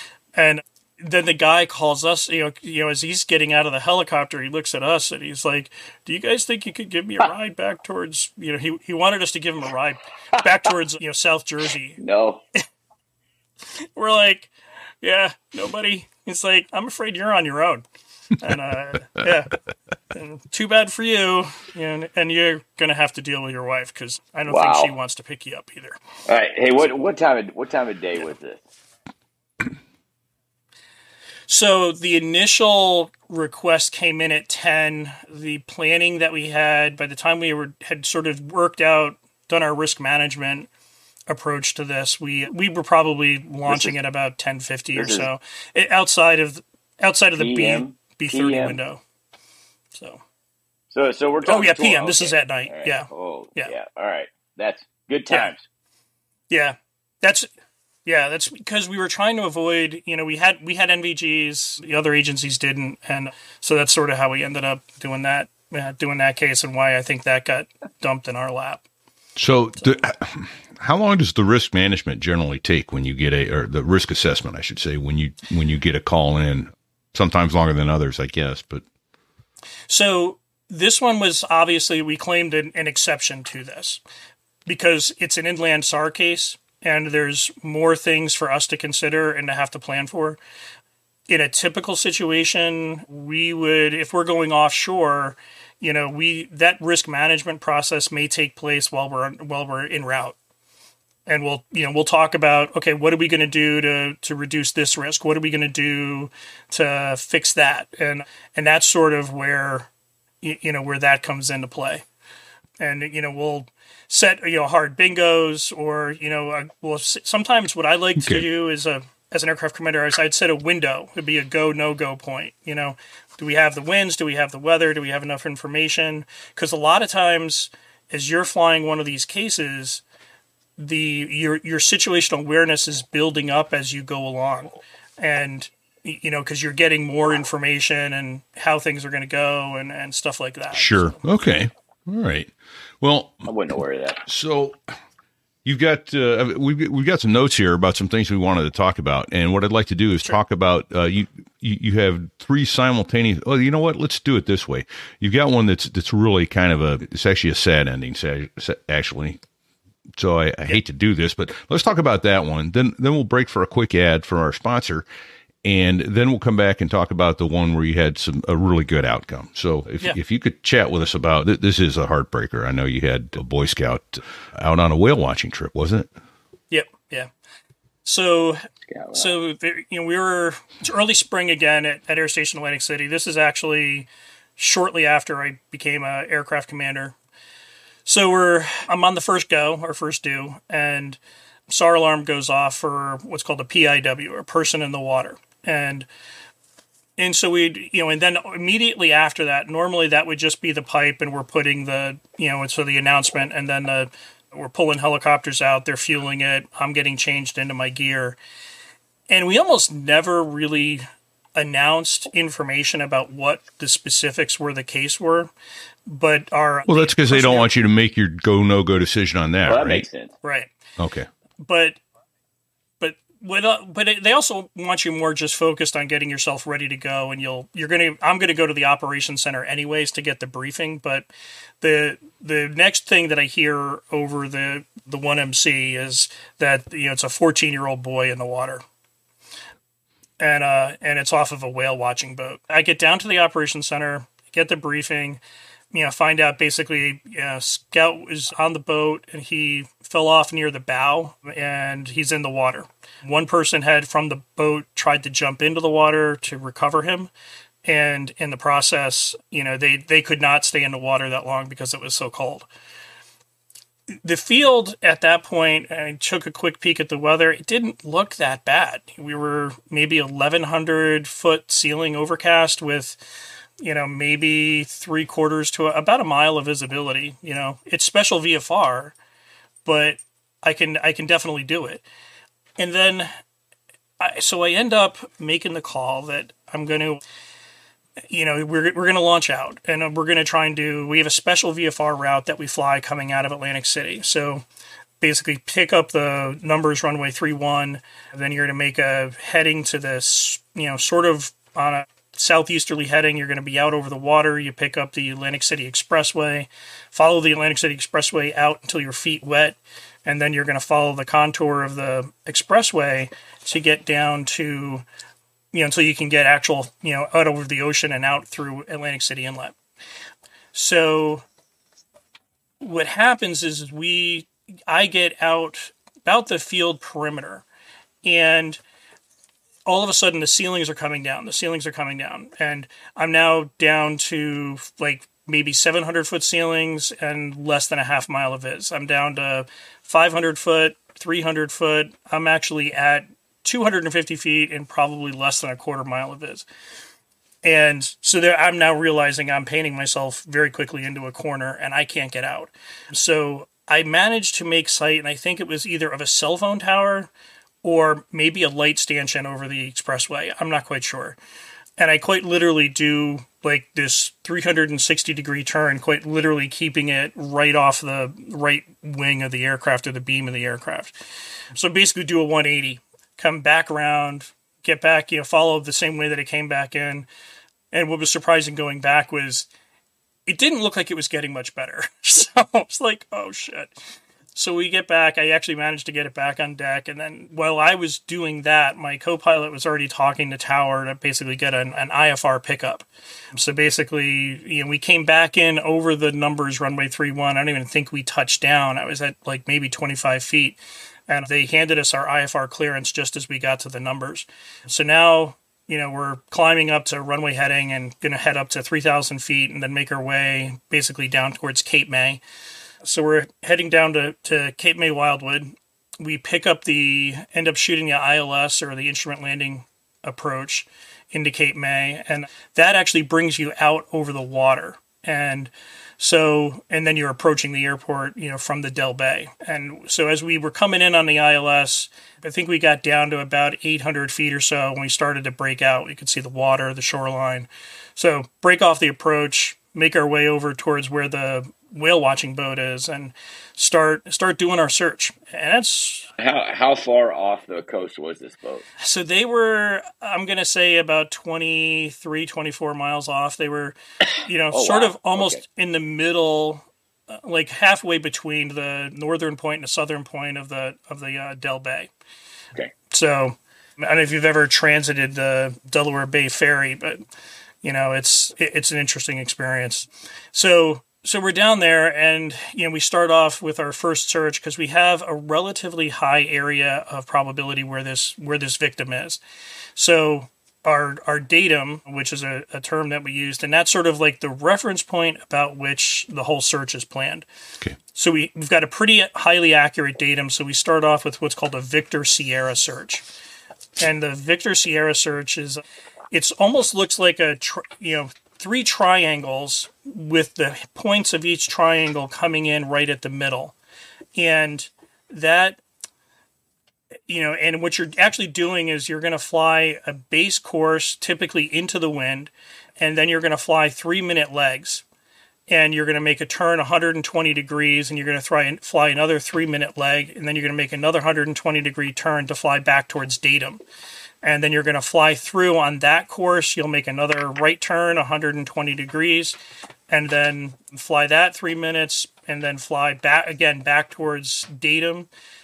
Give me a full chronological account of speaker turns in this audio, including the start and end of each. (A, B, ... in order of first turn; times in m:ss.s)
0:00.4-0:12.0 A
0:12.0-0:12.4 B
0:14.0-0:14.5 A
0:15.0-0:17.8 A
0:18.4-0:19.5 A
0:20.1-0:26.0 A
0:24.5-0:24.9 B
0:26.3-0:28.6 B
0:31.5-0:40.7 A
0:41.3-0:49.0 A
0:43.7-0:44.0 B
0:44.9-0:45.3 B
0:47.4-0:48.8 B
0:50.9-0:55.6 B
0:51.4-0:53.7 A
0:56.5-0:57.5 A
0:58.0-1:08.8 A
1:09.4-1:18.8 C
1:19.9-1:24.0 A
1:24.6-1:30.4 A
1:31.3-1:40.4 A
1:41.3-1:49.9 A
1:50.4-1:52.0 A
1:52.8-2:10.0 A
1:58.2-1:58.4 C
2:10.8-2:21.2 A
2:20.7-2:23.5 C
2:23.4-2:24.2 B
2:24.2-2:24.9 C
2:25.6-2:39.4 C
2:40.2-2:45.0 C
2:45.6-2:56.1 C
2:56.7-2:57.3 A
2:58.0-3:07.2 A
2:58.9-2:59.3 B
3:08.0-3:16.1 A
3:17.2-3:28.4 A
3:29.3-3:35.5 A
3:36.1-3:37.7 A
3:36.9-3:40.0 C
3:39.7-3:40.3 B
3:40.4-3:40.7 A
3:41.0-3:41.3 C
3:41.6-3:42.0 A
3:43.0-3:51.3 A
3:51.8-3:58.8 A
4:00.4-4:05.4 A
4:05.9-4:17.3 A
4:17.8-4:22.7 A
4:24.2-4:33.2 A
4:33.8-4:39.1 A
4:39.8-4:42.0 A
4:42.8-4:43.3 A
4:44.2-4:47.2 A
4:48.3-4:54.6 A
4:55.2-5:15.0 A
5:15.7-5:19.7 A
5:20.7-5:21.4 A
5:22.8-5:27.6 A
5:28.2-5:28.8 A
5:29.8-5:46.6 A
5:47.6-5:57.3 A
5:57.8-6:01.4 A
6:02.0-6:11.1 A
6:11.7-6:17.2 A
6:17.9-6:19.7 A
6:20.5-6:23.9 A
6:24.5-6:52.4 A
6:53.0-7:26.3 A
7:26.4-7:28.8 B
7:29.0-7:42.1 A
7:34.7-7:35.6 B
7:43.1-7:47.2 A
7:47.8-7:59.4 A
8:00.0-8:07.5 A
8:08.1-8:13.2 A
8:14.0-8:23.7 A
8:24.4-8:25.8 A
8:27.3-8:35.0 A
8:35.7-8:43.8 A
8:44.4-8:49.6 A
8:50.1-8:55.3 A